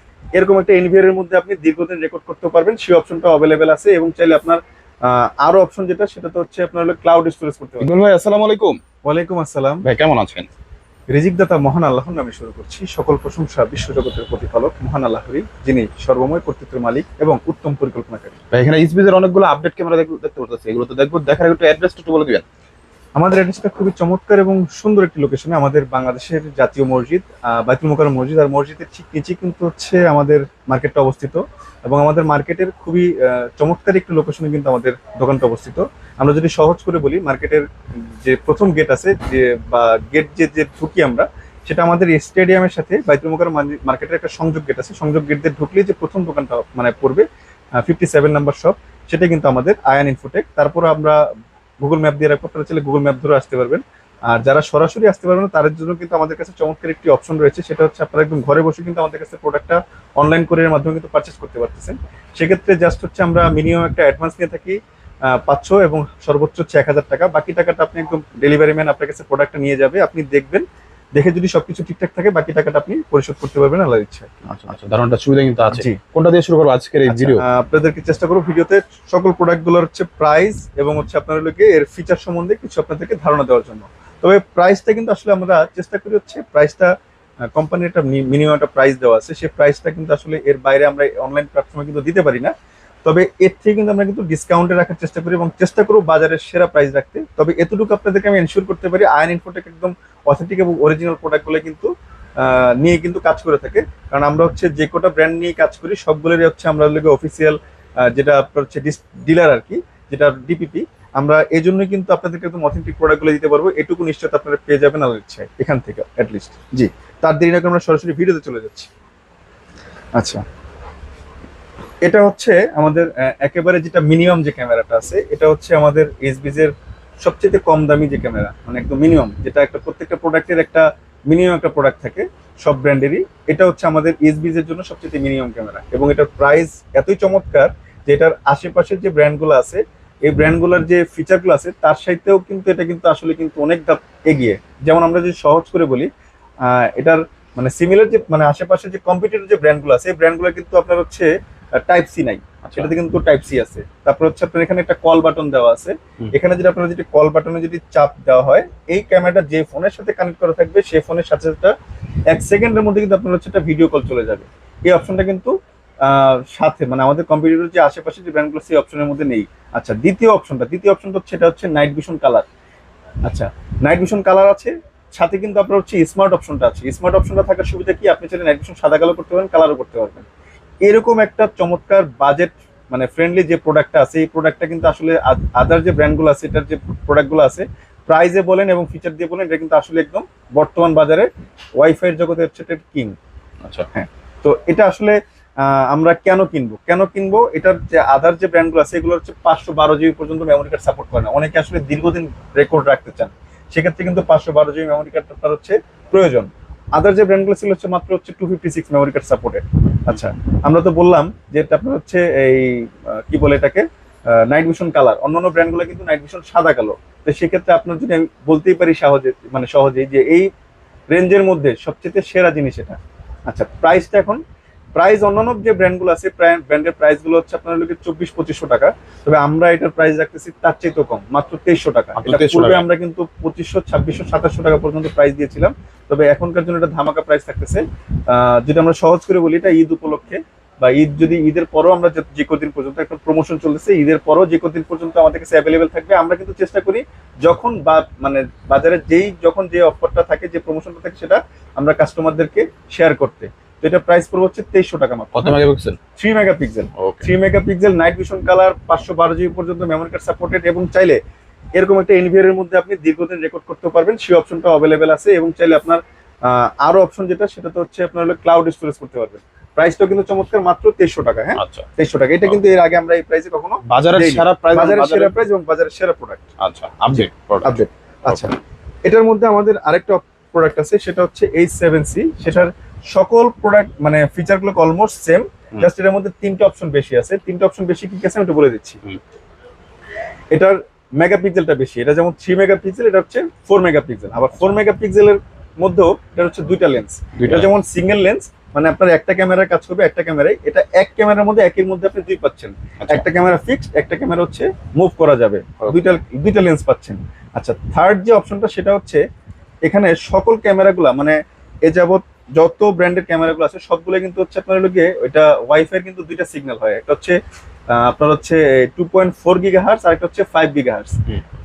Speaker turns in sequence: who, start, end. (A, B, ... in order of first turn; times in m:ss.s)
0:00.3-0:07.9 A
0:07.8-0:08.8 B
0:09.0-0:09.8 A
0:09.8-0:10.5 B
0:11.1-0:18.4 A
0:18.5-0:22.4 B
0:23.2-0:47.2 A
0:47.8-0:51.2 A
0:51.8-1:14.7 A
1:14.4-1:17.4 B
1:15.7-1:16.0 A
1:17.1-1:26.9 A
1:27.5-1:32.5 A
1:33.0-1:58.9 A
2:00.2-2:00.4 A
2:02.0-2:26.1 A
2:26.6-2:41.7 A
2:32.6-2:32.9 B
2:42.3-2:52.4 A
2:53.2-3:00.2 A
3:00.8-3:13.2 A
3:13.9-3:40.5 A
3:41.1-3:44.4 A
3:45.0-4:15.6 A
3:52.2-3:52.9 B
4:15.3-4:16.0 B
4:16.2-4:21.2 A
4:17.0-4:17.3 B
4:21.8-4:36.4 A
4:31.6-4:31.9 B
4:33.8-4:35.4 B
4:36.6-4:38.5 B
4:37.1-4:38.5 A
4:39.0-4:49.0 A
4:50.5-5:09.2 A
4:57.4-4:57.7 B
5:03.0-5:03.3 B
5:09.8-5:17.4 A
5:17.9-5:21.2 A